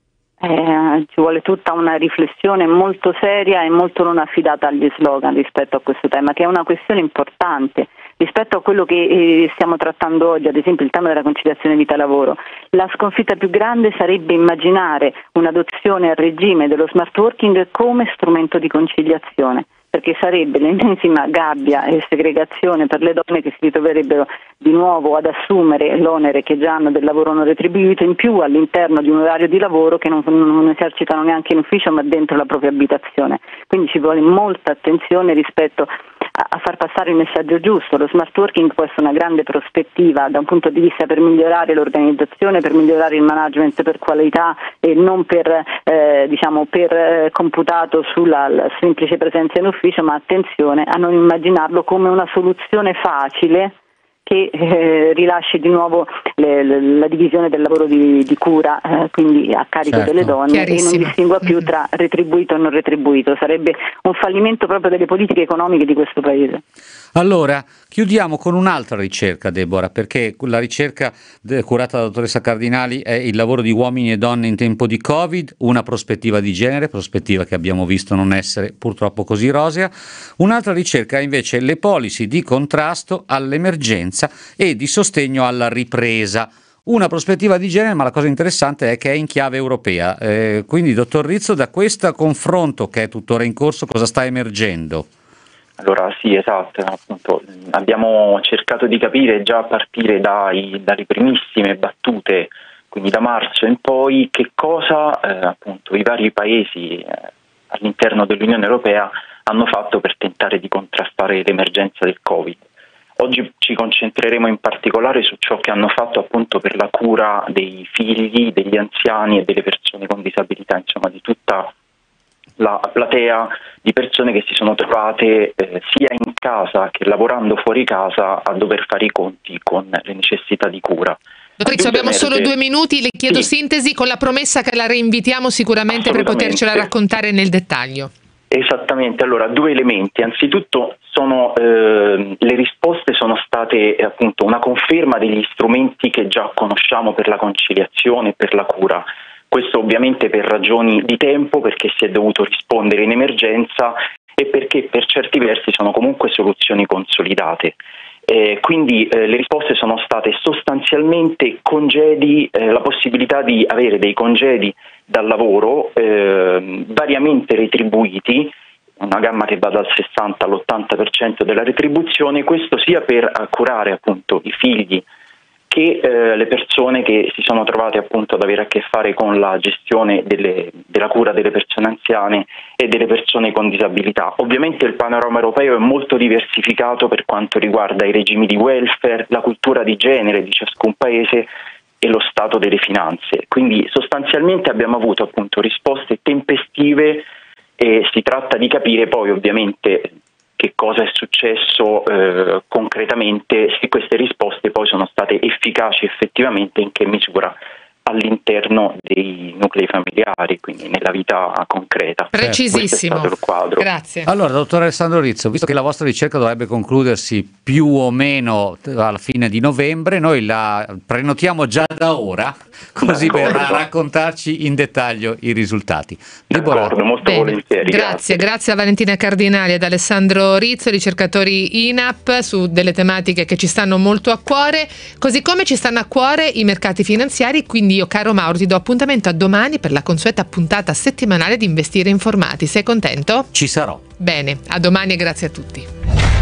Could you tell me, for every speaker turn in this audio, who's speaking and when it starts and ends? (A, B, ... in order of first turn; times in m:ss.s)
0:00.4-0:53.7 A
0:54.2-1:06.6 A
0:59.9-1:00.3 B
1:00.5-1:01.7 C
1:07.1-1:35.1 B
1:35.8-1:52.6 D
1:53.2-2:01.7 D
2:02.6-2:12.5 D
2:11.6-2:18.1 C
2:15.9-2:16.9 D
2:18.5-2:55.0 D
2:55.7-3:11.5 D
3:12.0-3:17.2 D
3:17.8-3:33.8 D
3:32.3-3:34.3 C
3:32.4-3:32.6 B
3:34.2-3:47.0 B
3:43.0-3:43.8 D
3:46.5-3:48.4 D
3:47.2-4:03.5 C
4:03.5-4:04.0 B
4:04.2-4:05.9 C